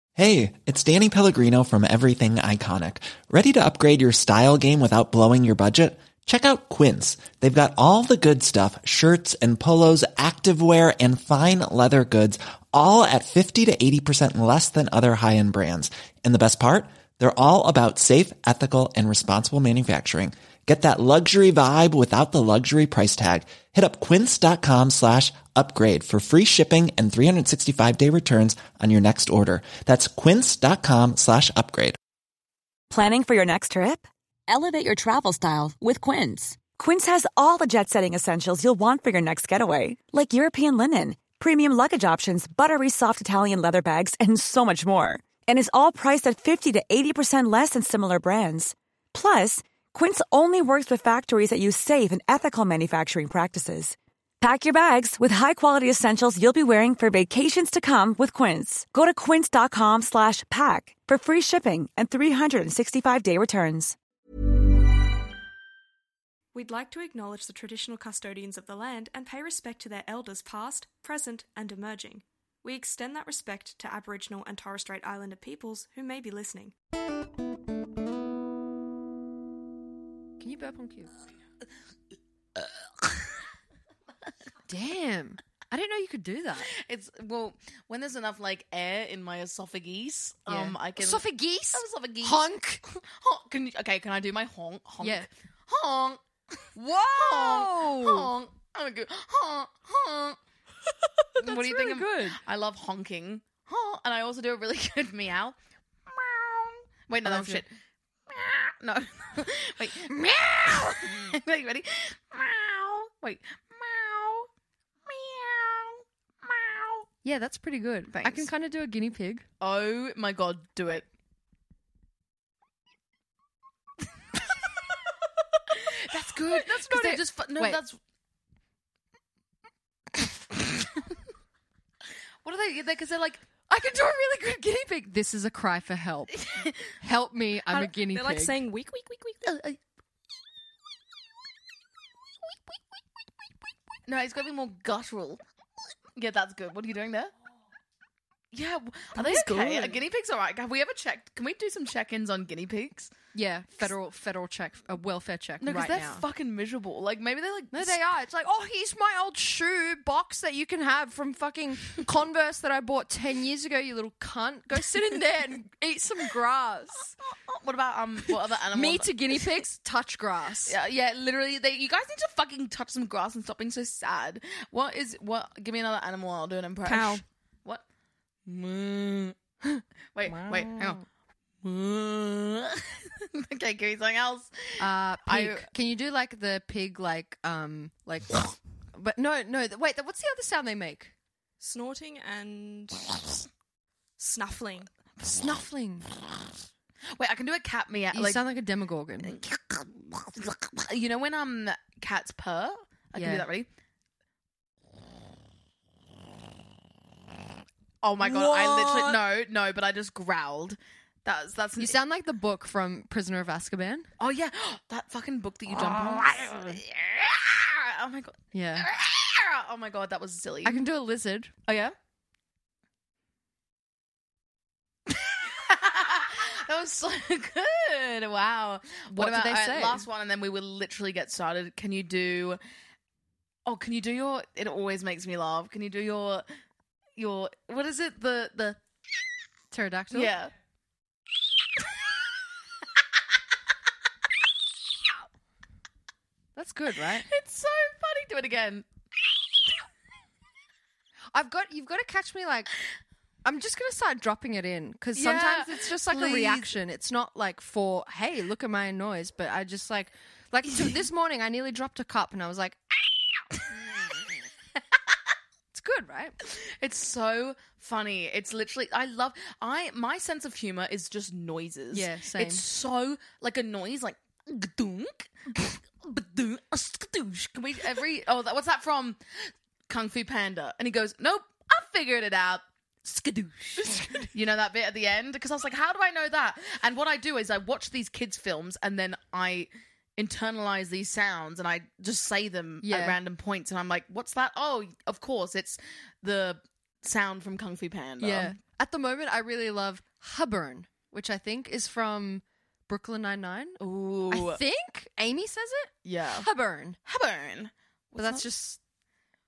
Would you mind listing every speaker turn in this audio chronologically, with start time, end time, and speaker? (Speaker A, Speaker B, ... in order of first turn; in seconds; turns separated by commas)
Speaker A: 0.2-32.0, Speaker B: 32.9-64.0, Speaker C: 66.5-76.7, Speaker D: 80.4-81.1, Speaker D: 84.7-86.7, Speaker E: 86.7-100.4, Speaker D: 90.5-92.8, Speaker D: 95.0-95.3, Speaker D: 96.8-98.3, Speaker D: 101.4-102.4, Speaker E: 101.4-105.5, Speaker E: 106.1-107.7, Speaker D: 107.2-107.6, Speaker E: 108.3-114.5, Speaker D: 110.1-111.0, Speaker E: 115.1-117.1, Speaker D: 117.2-119.5, Speaker E: 118.1-118.5, Speaker E: 119.6-121.1, Speaker E: 125.7-128.0, Speaker D: 126.1-127.8, Speaker E: 132.4-133.4, Speaker D: 133.7-138.6, Speaker C: 137.8-139.6, Speaker E: 139.5-139.8, Speaker E: 144.1-145.4, Speaker E: 146.2-147.3, Speaker E: 148.5-153.1, Speaker C: 149.2-150.0, Speaker D: 153.3-156.2, Speaker E: 155.6-158.0, Speaker D: 157.7-167.1, Speaker E: 167.3-169.4, Speaker D: 168.7-170.8, Speaker E: 170.7-177.8, Speaker C: 176.8-177.2, Speaker E: 178.5-179.4, Speaker D: 179.7-181.0, Speaker E: 180.1-181.0, Speaker E: 181.6-185.7, Speaker D: 184.8-191.1, Speaker C: 191.6-193.4, Speaker C: 194.2-194.9, Speaker E: 195.2-195.5, Speaker D: 195.2-196.1, Speaker E: 197.1-198.4, Speaker D: 198.1-199.4, Speaker E: 199.2-203.7, Speaker D: 203.2-203.5, Speaker E: 208.0-211.9, Speaker D: 208.2-209.2, Speaker D: 211.8-214.1, Speaker E: 214.2-220.8, Speaker D: 215.7-216.8, Speaker D: 218.5-218.9, Speaker D: 220.6-221.5, Speaker E: 221.7-221.9, Speaker E: 225.1-232.6, Speaker D: 229.1-230.1, Speaker E: 233.7-236.5, Speaker E: 237.2-238.8, Speaker D: 239.7-240.3, Speaker E: 240.1-240.5, Speaker D: 246.6-247.3, Speaker E: 247.1-248.9, Speaker D: 251.3-252.7, Speaker D: 253.4-262.8, Speaker E: 255.2-256.8, Speaker D: 265.7-266.4, Speaker E: 266.4-298.6, Speaker D: 271.9-272.6, Speaker D: 283.8-284.3, Speaker D: 292.8-293.2, Speaker D: 298.2-307.0, Speaker E: 303.8-304.6, Speaker E: 306.1-306.5, Speaker E: 307.1-308.5, Speaker D: 308.2-308.8